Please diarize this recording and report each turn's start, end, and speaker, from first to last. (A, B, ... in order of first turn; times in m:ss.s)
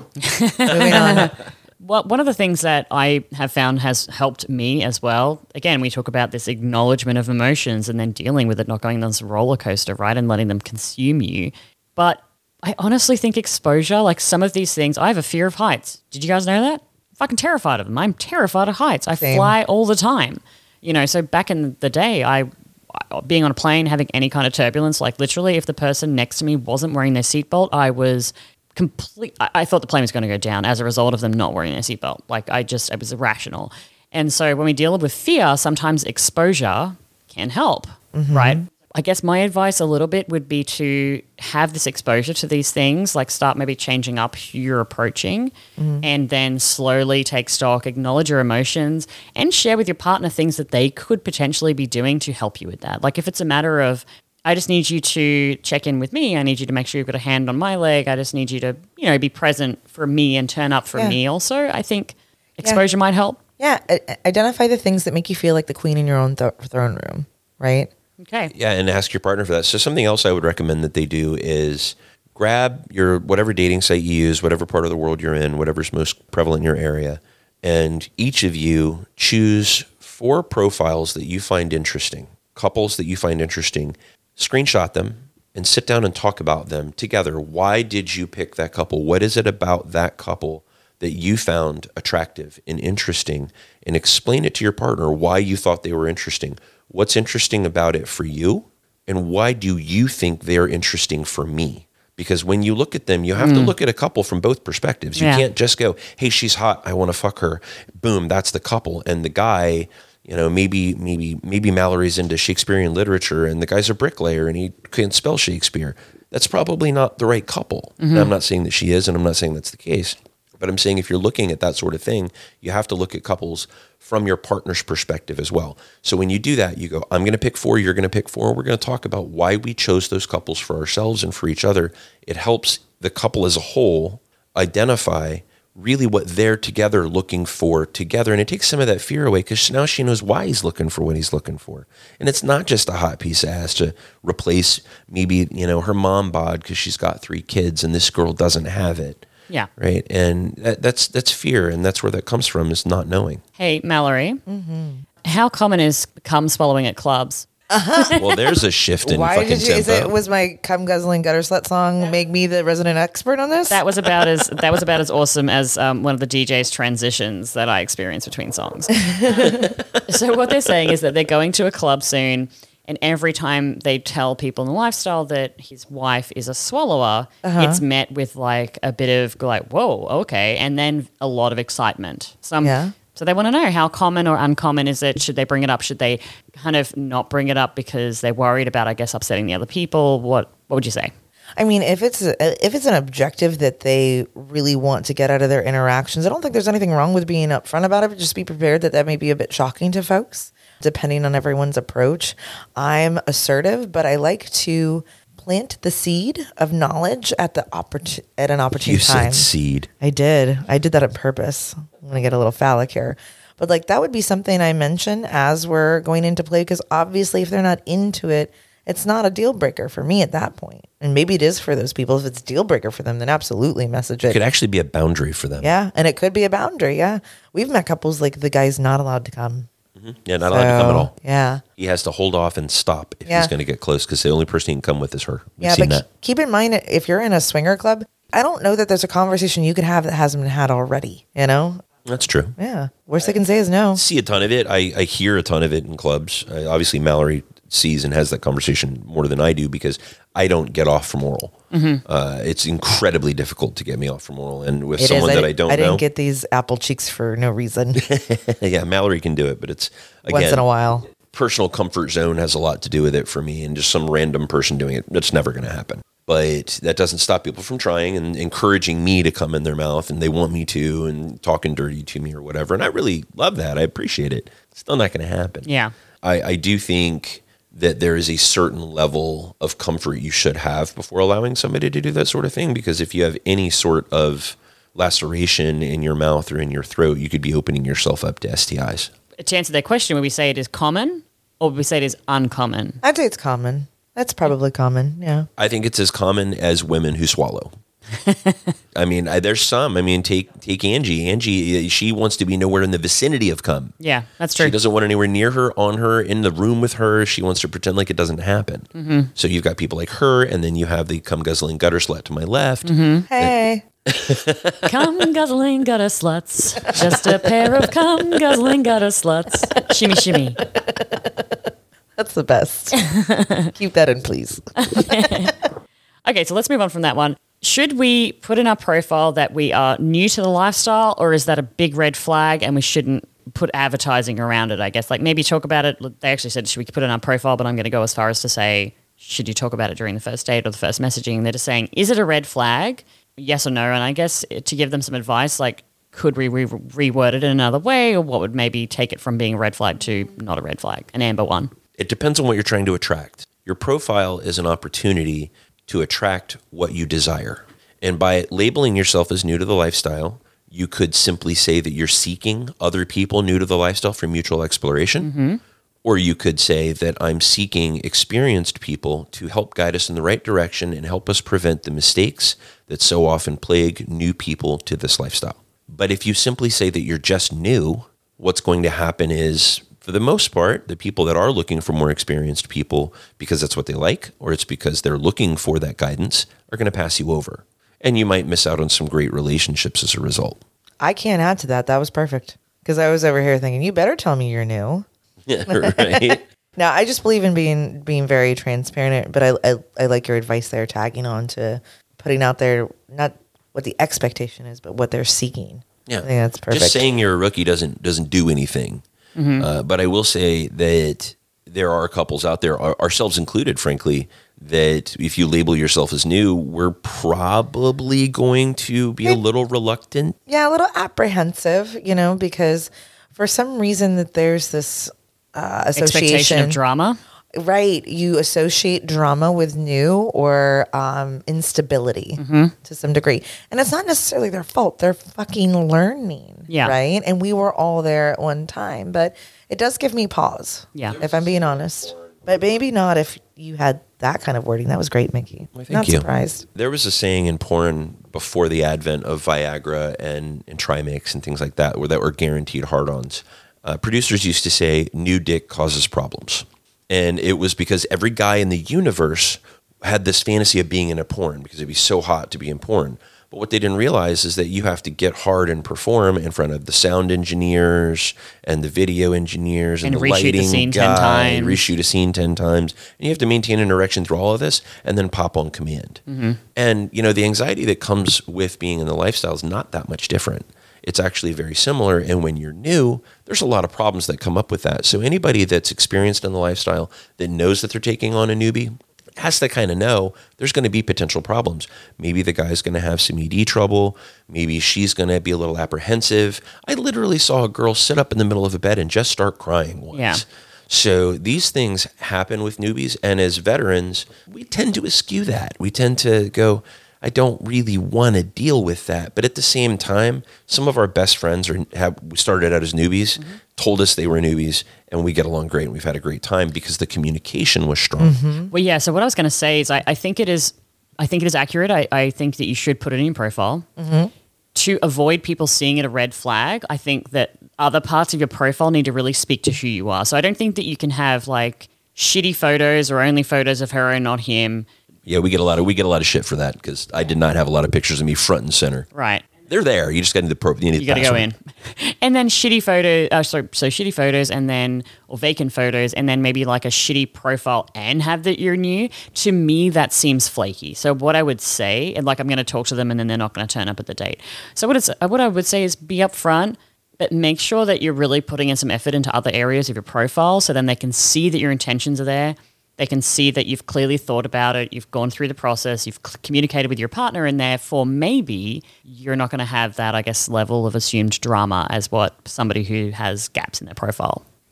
0:00.2-1:03.4 A
0:00.7-0:01.3 B
0:01.0-0:01.3 C
0:19.2-0:19.6 B
0:38.1-0:38.6 B
0:45.8-0:46.1 B
1:03.6-1:07.9 B
1:08.2-1:08.5 A
1:08.5-2:29.3 C
1:43.4-1:43.7 A
1:45.2-1:45.4 A
1:58.0-1:58.3 A
2:29.8-2:33.4 C
2:33.6-2:34.4 A
2:34.5-2:35.0 B
2:35.2-2:37.5 A
2:37.7-2:43.8 B
2:38.1-2:40.1 C
2:43.7-3:11.1 A
2:49.0-2:49.7 B
2:49.4-2:50.0 C
2:57.4-2:57.8 B
3:02.6-3:02.9 B
3:11.6-3:29.5 B
3:28.8-3:29.9 C
3:30.0-3:44.4 B
3:44.3-3:45.7 C
3:45.6-3:49.7 B
3:50.0-3:51.1 C
3:50.4-3:51.6 B
3:51.8-3:56.1 C
3:55.6-4:01.8 B
4:02.1-4:02.6 C
4:02.6-4:04.0 B
4:04.0-4:11.5 C
4:11.7-4:12.0 A
4:12.0-4:16.0 C
4:15.0-4:18.0 B
4:18.0-4:20.6 C
4:20.3-4:21.1 B
4:21.2-4:35.7 C
4:35.7-4:35.9 A
4:36.2-4:49.1 C
4:49.4-4:53.0 A
4:53.0-4:55.5 B
4:55.6-4:57.7 C
4:58.1-4:58.8 A
4:59.0-5:04.0 C
5:04.0-5:04.8 A
5:04.6-5:13.5 C
5:09.0-5:09.3 A
5:12.8-5:13.3 A
5:13.3-5:13.8 B
5:14.1-5:15.0 C
5:14.8-5:20.6 A
5:16.9-5:17.5 B
5:19.8-5:23.0 B
5:22.9-5:23.7 A
5:23.8-5:25.5 B
5:24.8-5:25.5 A
5:26.2-5:51.7 A
5:52.0-6:05.3 C
6:05.2-6:05.6 A
6:06.0-6:30.6 C
6:31.0-6:35.1 B
6:35.5-6:36.4 C
6:35.7-6:47.0 B
6:46.1-6:49.0 C
6:49.4-6:49.7 A
6:49.6-7:00.4 C
7:00.5-7:06.8 B
7:06.0-7:07.2 A
7:07.5-7:26.7 B
7:12.4-7:12.7 A
7:16.7-7:17.0 A
7:25.7-7:56.2 C
7:50.0-7:51.8 A
7:56.3-7:56.6 A
7:56.8-8:38.4 C
8:20.1-8:20.4 A
8:38.2-8:38.7 B
8:38.7-8:43.9 A
8:44.0-8:44.3 B
8:44.8-8:54.9 A
8:55.3-8:59.1 C
8:59.1-8:59.4 A
8:59.7-9:01.4 C
9:01.0-9:34.4 A